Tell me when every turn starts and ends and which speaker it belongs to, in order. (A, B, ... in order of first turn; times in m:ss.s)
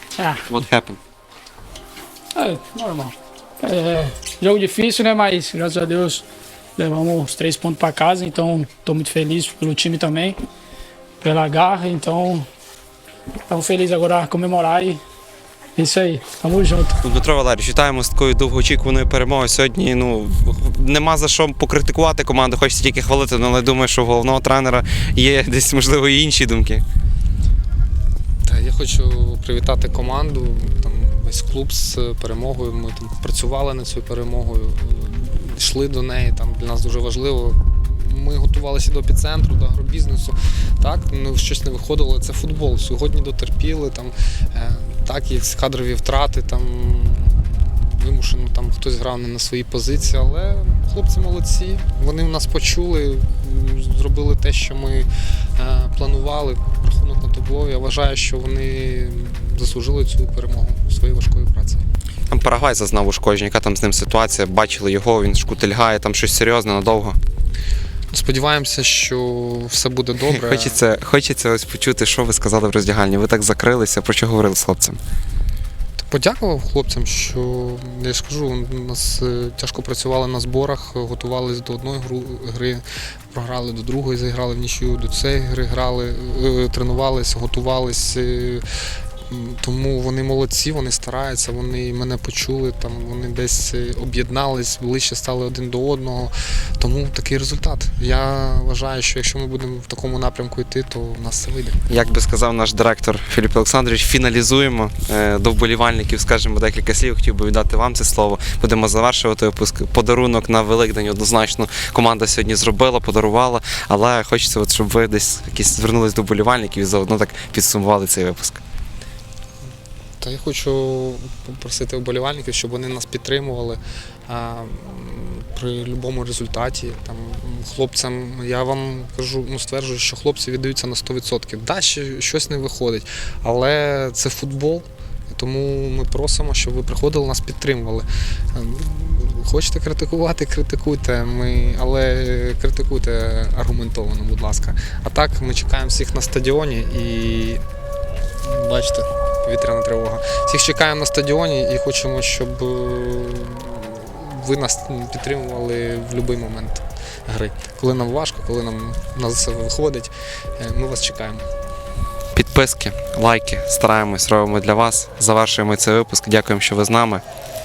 0:00.2-0:00.4 A
0:00.4-0:01.0 B
0:02.4-0:06.2 A
0:06.8-0:10.4 A
0:11.2-0:12.5 A
0:13.5-0:15.0 A
0:15.8-0:17.0 A
0:17.0-0:26.8 B
0:28.5-1:01.8 C
1:02.3-1:07.2 B
1:08.1-1:10.8 C
1:10.3-1:15.0 B
1:16.0-1:28.6 C
1:29.3-1:41.8 C
1:41.9-1:58.6 B
2:00.2-2:27.6 C
2:28.4-2:41.5 C
2:42.4-2:47.2 B